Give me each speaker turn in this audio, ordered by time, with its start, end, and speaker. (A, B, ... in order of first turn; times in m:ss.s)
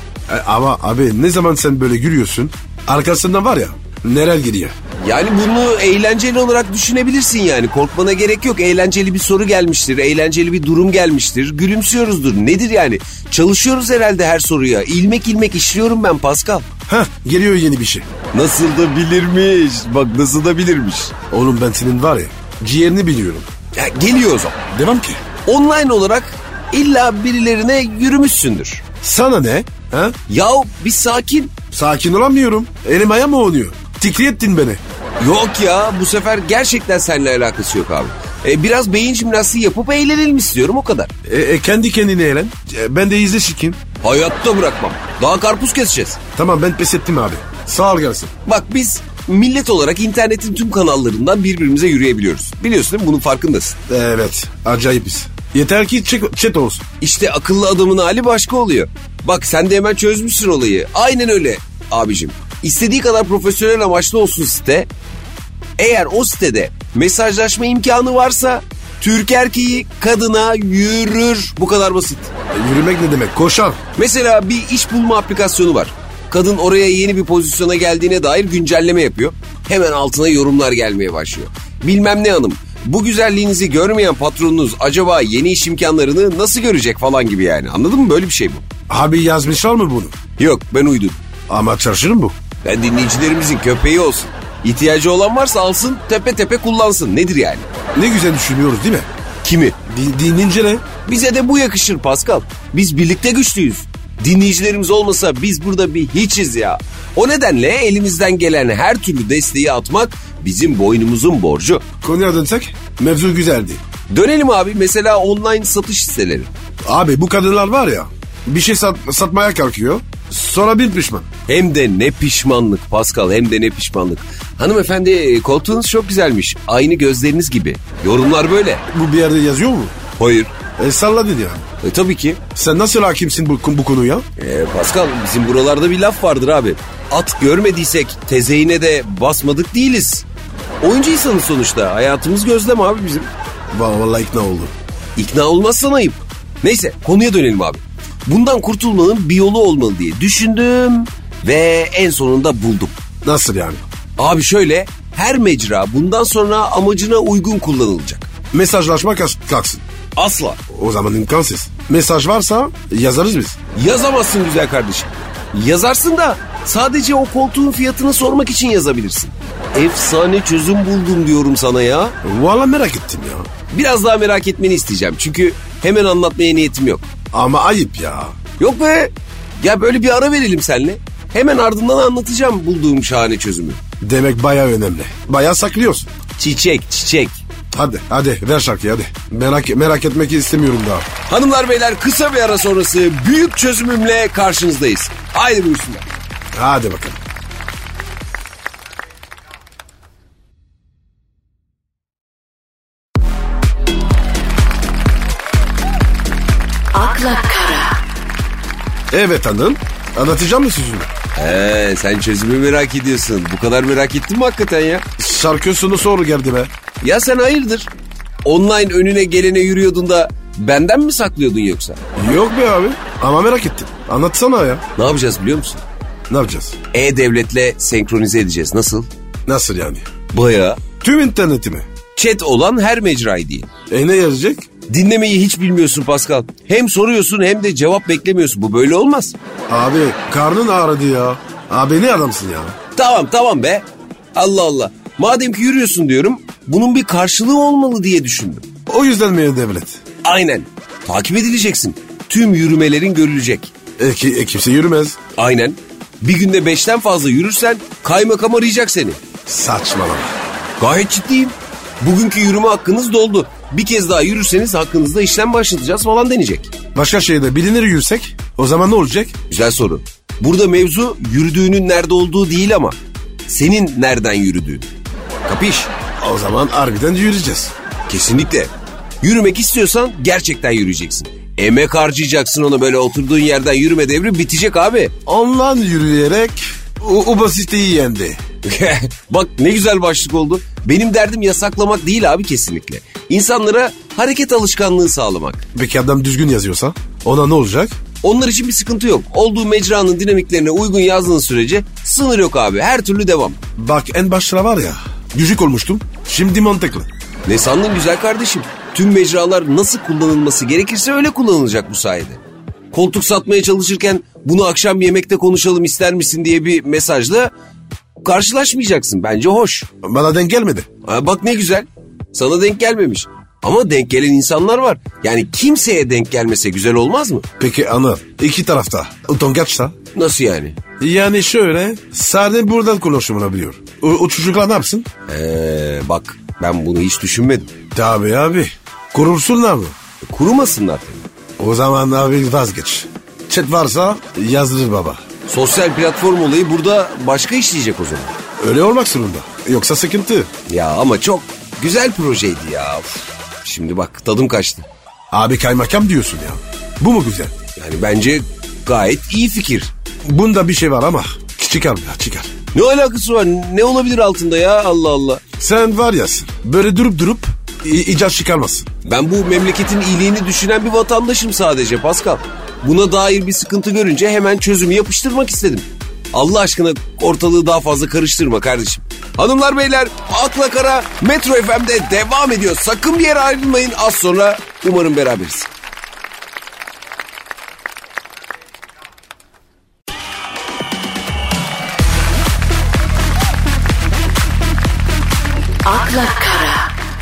0:00.3-0:04.8 A
0:05.0-0:16.7 B
0:16.9-0:18.1 A
0:18.3-0:21.1 B
0:21.3-0:23.5 A
0:23.8-0:24.6 B
0:24.7-0:25.2 A
0:25.4-0:28.8 B
0:29.0-0:30.2 A
0:30.3-0:31.6 B
0:31.7-0:34.8 A
0:35.2-0:41.1 B
0:41.3-0:43.8 A
0:44.0-0:46.2 B
0:46.4-0:48.3 A
0:48.4-0:53.8 B
0:53.9-0:56.8 A
0:57.0-1:04.9 B
1:05.8-1:12.3 B
1:12.5-1:13.8 A
1:14.0-1:28.6 B
1:28.9-1:30.2 A
1:30.4-1:31.2 B
1:31.5-1:32.4 A
1:32.6-1:37.7 B
1:38.0-1:39.1 A
1:39.4-1:39.8 B
1:39.9-1:40.8 A
1:41.0-1:51.8 B
1:52.0-1:53.8 A
1:54.1-1:56.5 B
1:56.9-2:01.3 A
2:01.5-2:08.8 B
2:08.9-2:10.0 A
2:10.2-2:10.5 B
2:10.8-2:11.7 A
2:11.8-2:12.4 B
2:12.6-2:14.3 A
2:14.4-2:20.2 B
2:20.8-2:23.3 B
2:23.7-2:24.7 A
2:25.2-2:33.0 B
2:33.2-2:33.8 A
2:34.2-2:38.3 B
2:38.5-2:39.8 A
2:40.2-2:40.6 B
2:40.7-2:43.6 A
2:43.8-2:52.2 B
2:52.2-2:53.5 A
2:53.7-2:57.1 B
2:57.3-2:58.4 A
2:58.6-3:03.8 B
3:04.0-3:06.1 A
3:06.4-3:07.4 B
3:07.7-3:11.1 A
3:11.3-3:16.0 B
3:16.5-3:17.2 A
3:26.9-3:28.0 C
3:29.1-3:31.1 A
3:31.4-3:35.1 B
3:35.2-3:36.7 A
3:37.0-3:37.9 B
3:38.5-3:42.0 B
3:42.2-3:44.8 A
3:45.0-3:45.8 B
3:46.3-3:46.8 A
3:46.9-3:49.1 B
3:49.5-3:50.1 A
3:50.3-3:50.8 B
3:51.0-3:51.9 A
3:52.2-3:53.7 B
3:53.9-3:54.7 A
3:54.9-3:59.4 B
3:59.7-4:02.8 A
4:03.0-4:08.7 B
4:08.9-4:10.0 A
4:10.2-4:13.7 B
4:14.0-4:15.2 A
4:15.4-4:19.2 B
4:19.5-4:20.4 A
4:20.8-4:26.7 B
4:26.9-4:29.3 A
4:29.5-4:34.9 B
4:35.5-4:35.9 B
4:36.2-4:37.7 A
4:38.1-4:45.2 B
4:45.3-4:48.4 A
4:48.6-4:55.6 B
4:55.7-4:58.0 A
4:58.2-5:03.6 B
5:03.8-5:07.1 A
5:07.5-5:12.4 B
5:12.9-5:17.5 B
5:18.2-5:19.9 B
5:20.0-5:20.9 A
5:21.0-5:27.5 B
5:27.6-5:30.0 A
5:30.1-5:30.8 B
5:31.0-5:35.1 A
5:35.3-5:37.7 B
5:37.9-5:40.0 A
5:40.2-5:41.2 B
5:41.6-5:45.2 A
5:45.5-5:48.3 B
5:48.6-5:50.5 A
5:50.7-5:54.9 B
5:55.3-5:57.5 A
5:57.8-5:59.9 B
6:00.2-6:02.5 A
6:02.7-6:05.4 B
6:05.6-6:08.9 A
6:09.0-6:25.7 B
6:35.8-6:36.9 C